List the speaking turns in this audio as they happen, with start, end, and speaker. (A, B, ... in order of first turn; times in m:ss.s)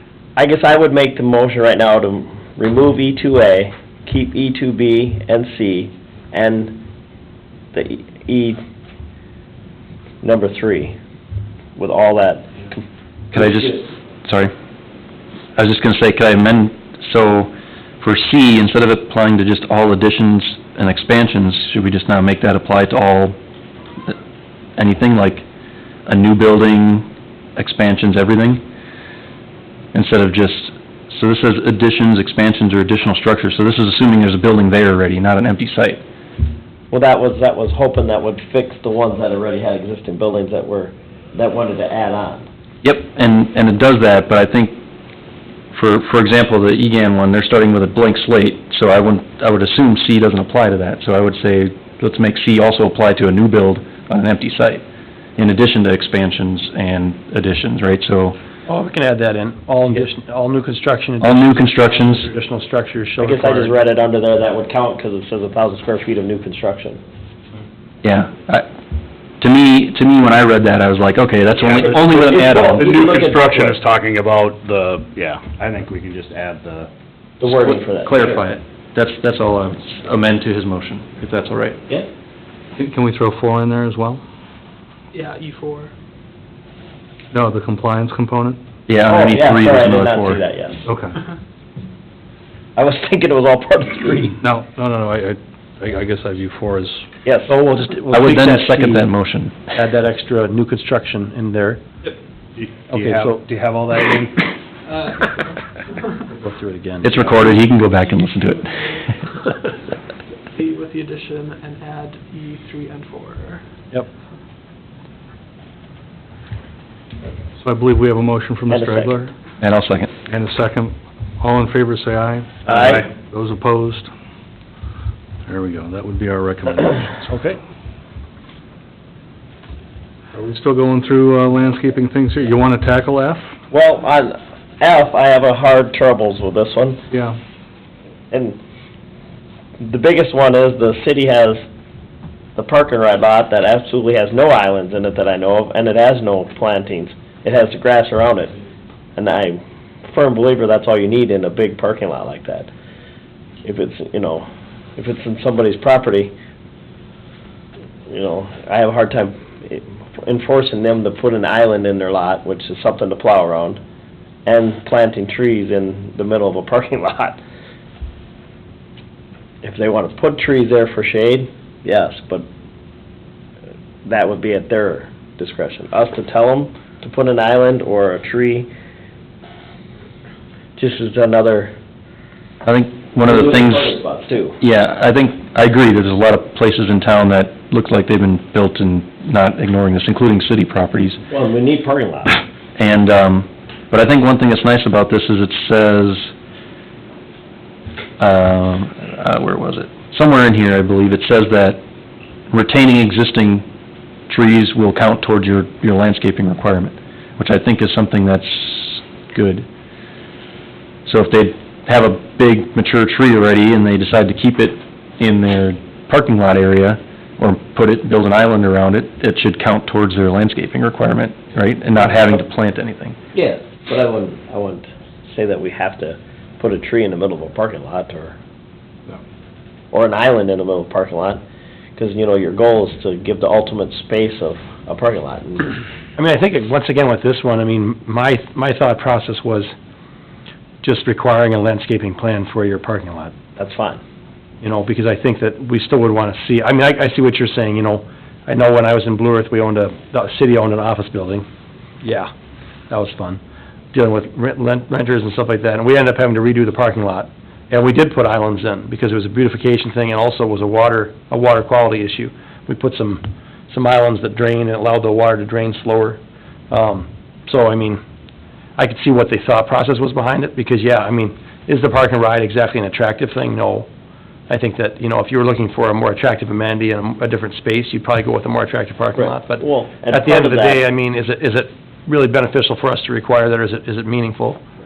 0:00.4-0:06.8 A
0:07.7-0:08.6 A
0:10.2-0:10.9 A
0:11.8-0:12.8 A
0:13.3-0:14.5 B
0:13.4-0:13.8 A
0:15.6-0:23.4 B
0:24.8-0:25.4 B
0:26.1-0:28.6 B
0:29.9-0:36.0 B
0:36.9-0:42.4 A
0:42.8-0:44.8 B
0:45.7-0:54.8 B
0:55.4-0:58.4 B
0:58.7-1:03.7 C
1:01.2-1:02.3 B
1:03.2-1:07.0 A
1:08.0-1:08.7 B
1:09.4-1:12.9 B
1:11.6-1:13.8 A
1:11.8-1:16.9 D
1:17.4-1:18.4 A
1:17.5-1:21.8 B
1:22.8-1:24.2 E
1:25.1-1:25.9 F
1:27.3-1:28.6 E
1:28.9-1:30.4 B
1:29.1-1:30.8 A
1:30.8-1:31.2 E
1:32.8-1:34.4 A
1:34.4-1:37.0 E
1:37.2-1:37.5 A
1:37.5-1:39.1 C
1:38.1-1:39.6 B
1:39.7-1:41.8 C
1:42.6-1:44.5 D
1:42.9-1:43.4 C
1:44.9-1:46.1 F
1:46.3-1:47.3 C
1:47.0-1:49.2 B
1:47.4-1:49.6 F
1:50.5-1:53.6 F
1:57.6-1:59.3 E
1:58.7-1:59.2 A
1:59.6-2:00.1 B
2:00.3-2:04.1 E
2:02.6-2:03.0 A
2:05.5-2:07.3 E
2:07.3-2:07.6 C
2:10.3-2:13.5 E
2:13.7-2:17.0 A
2:17.1-2:17.4 E
2:18.3-2:18.6 A
2:19.8-2:21.6 A
2:22.6-2:28.5 A
2:29.1-2:32.7 A
2:33.6-2:34.4 A
2:35.0-2:36.3 A
2:38.1-2:43.8 A
2:44.4-2:47.4 A
2:49.6-2:52.4 A
2:54.0-2:58.7 A
3:00.8-3:01.7 A
3:02.6-3:03.9 B
3:03.2-3:04.6 A
3:04.6-3:11.2 B
3:11.3-3:12.4 A
3:12.8-3:16.3 B
3:18.2-3:21.8 B
3:22.5-3:23.6 B
3:24.3-3:29.6 B
3:31.0-3:43.2 B
3:43.3-3:48.4 A
3:49.9-3:51.4 A
3:52.0-3:55.7 A
3:56.2-3:59.7 C
4:00.8-4:03.3 C
4:03.6-4:04.0 A
4:04.6-4:11.4 C
4:12.0-4:12.3 C
4:12.9-4:13.4 C
4:13.9-4:28.0 C
4:28.8-4:33.9 C
4:34.5-4:44.6 C
4:39.2-4:40.8 A